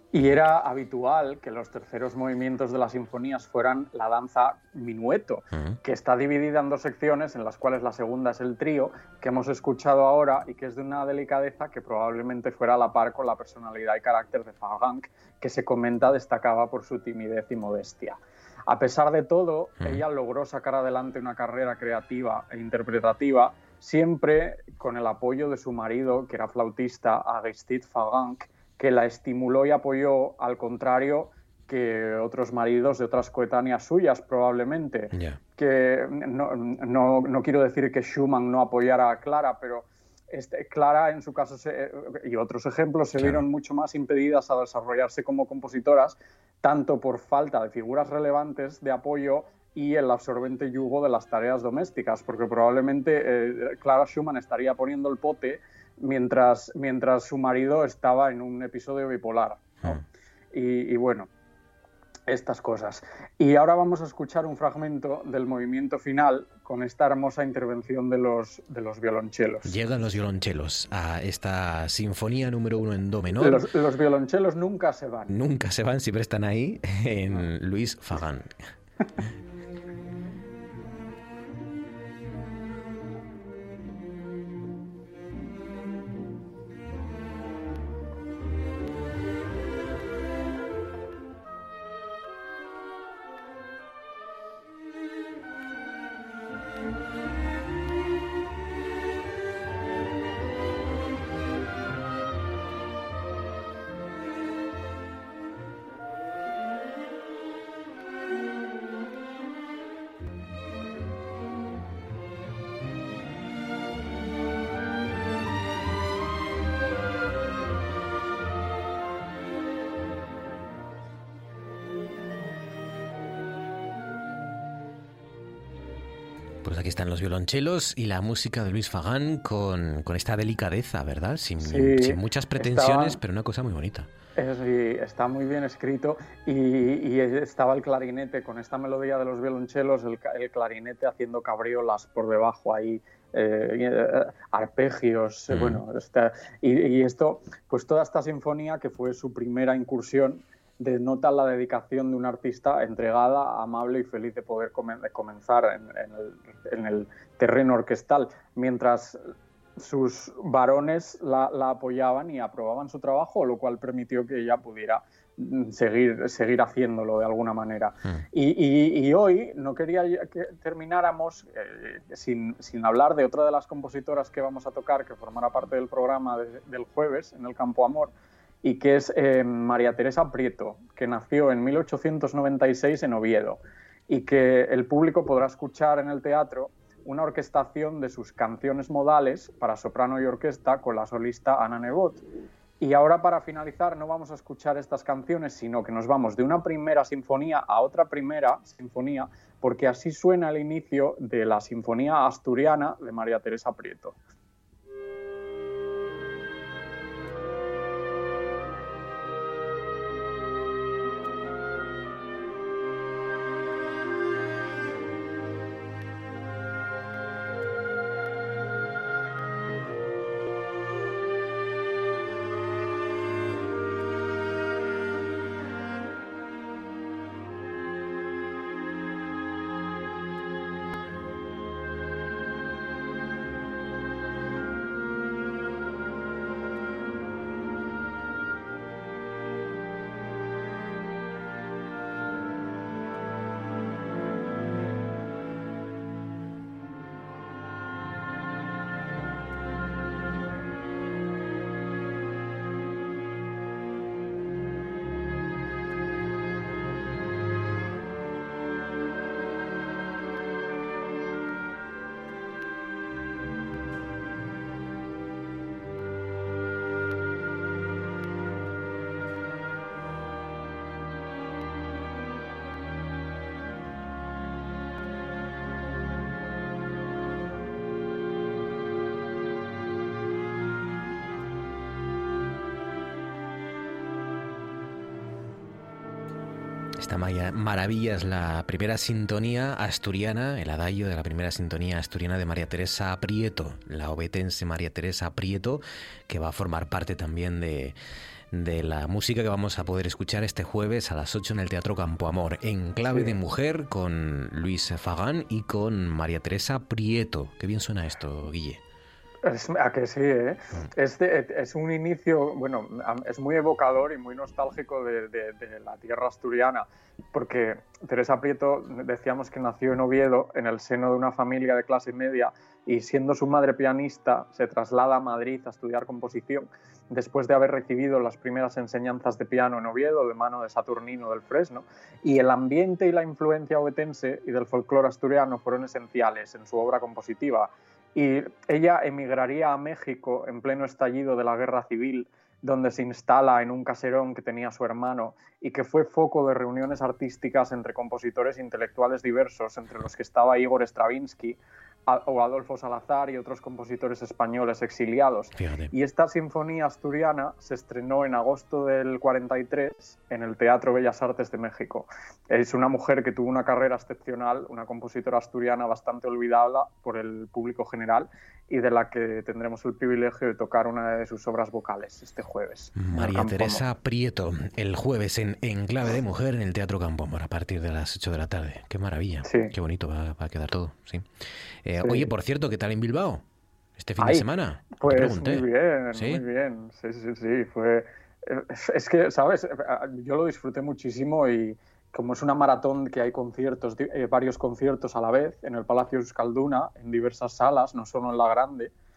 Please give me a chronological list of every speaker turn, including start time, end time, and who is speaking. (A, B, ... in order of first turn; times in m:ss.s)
0:00.1-1:00.0 A
0:35.1-0:35.4 B
0:43.2-0:43.4 B
1:00.5-1:01.3 A
1:02.3-1:09.7 A
1:09.6-1:13.6 B
1:13.4-1:15.3 A
1:15.3-1:18.5 B
2:06.6-2:14.1 B
2:11.6-2:13.2 A
2:14.4-2:39.2 A
2:25.5-2:25.8 B
2:39.8-3:12.2 A
3:12.8-3:24.2 A
4:47.0-4:58.0 B
4:58.5-5:08.8 B
5:03.0-5:03.4 A
5:09.4-6:13.8 A
5:55.6-5:55.9 B
6:13.0-6:21.2 B
6:19.4-6:19.7 A
6:21.8-6:23.4 B
6:22.0-6:22.3 A
6:24.0-6:26.4 B
6:24.2-6:38.9 A